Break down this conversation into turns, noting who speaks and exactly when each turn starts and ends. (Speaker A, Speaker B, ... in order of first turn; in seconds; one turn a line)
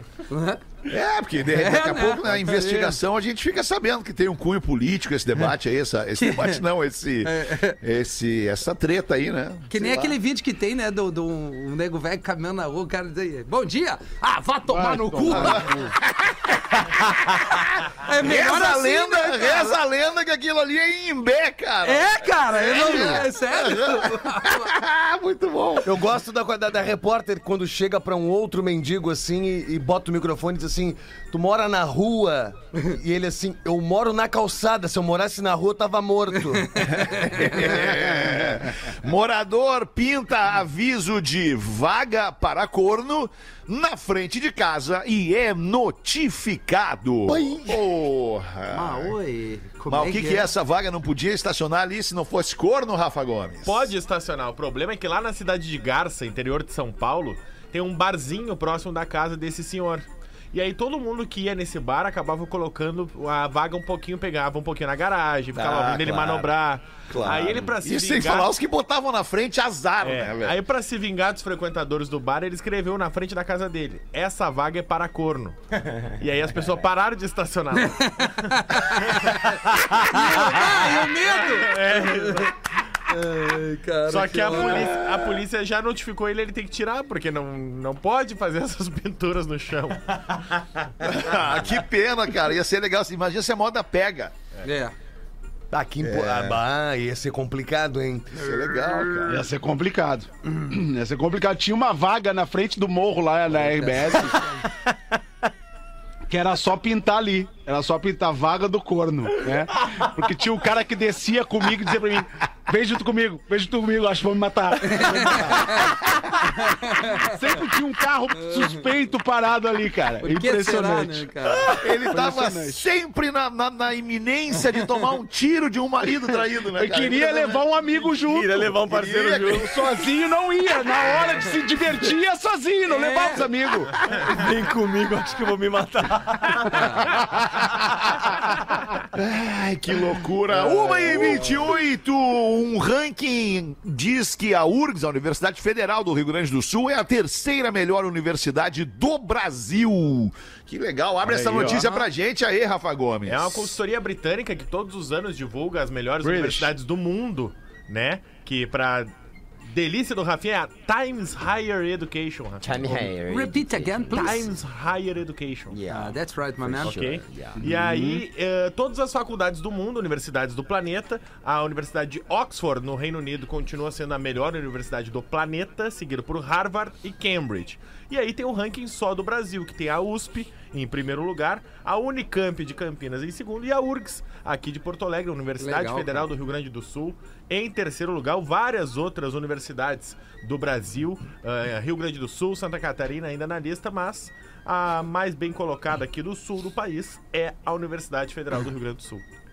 Speaker A: 0.3-0.6
Speaker B: 0.9-10.2
Speaker A: 1.6-3.0
Speaker A: 6.2-6.6
Speaker A: 7.2-7.8
Speaker A: 9.7-15.8
Speaker C: 14.7-15.9
Speaker B: 15.3-26.0
Speaker A: 18.0-19.8
Speaker A: 21.8-24.7
Speaker D: 25.9-36.8
Speaker B: 36.8-49.1
Speaker D: 47.3-47.8
Speaker A: 48.7-50.5
Speaker B: 49.9-53.9
Speaker E: 53.6-68.5
Speaker B: 65.5-66.5
Speaker B: 67.1-70.6
Speaker E: 70.0-82.5
Speaker A: 77.8-82.5
Speaker A: 83.1-85.0
Speaker E: 84.1-90.8
Speaker B: 91.0-94.3
Speaker A: 94.6-94.9
Speaker D: 95.7-98.4
Speaker B: 96.0-96.6
Speaker B: 98.3-99.5
Speaker C: 99.2-104.5
Speaker A: 103.6-104.6
Speaker C: 106.3-116.0
Speaker A: 114.8-116.0
Speaker A: 116.5-117.4
Speaker C: 117.2-121.3
Speaker A: 118.4-118.8
Speaker A: 120.2-121.8
Speaker B: 121.6-127.7
Speaker C: 122.0-122.8
Speaker C: 126.8-128.8
Speaker F: 128.1-129.8
Speaker B: 128.8-129.7
Speaker C: 129.5-134.0
Speaker A: 132.9-133.5
Speaker F: 134.0-137.0
Speaker B: 139.1-153.7
Speaker F: 140.7-141.6
Speaker C: 151.3-151.8
Speaker E: 153.3-159.1
Speaker C: 156.2-156.7
Speaker E: 159.7-163.1
Speaker D: 162.6-164.3
Speaker A: 163.3-164.5
Speaker E: 164.1-165.8
Speaker D: 165.7-167.6
Speaker A: 165.9-167.0
Speaker E: 166.8-199.2
Speaker C: 167.6-168.2
Speaker A: 185.6-186.3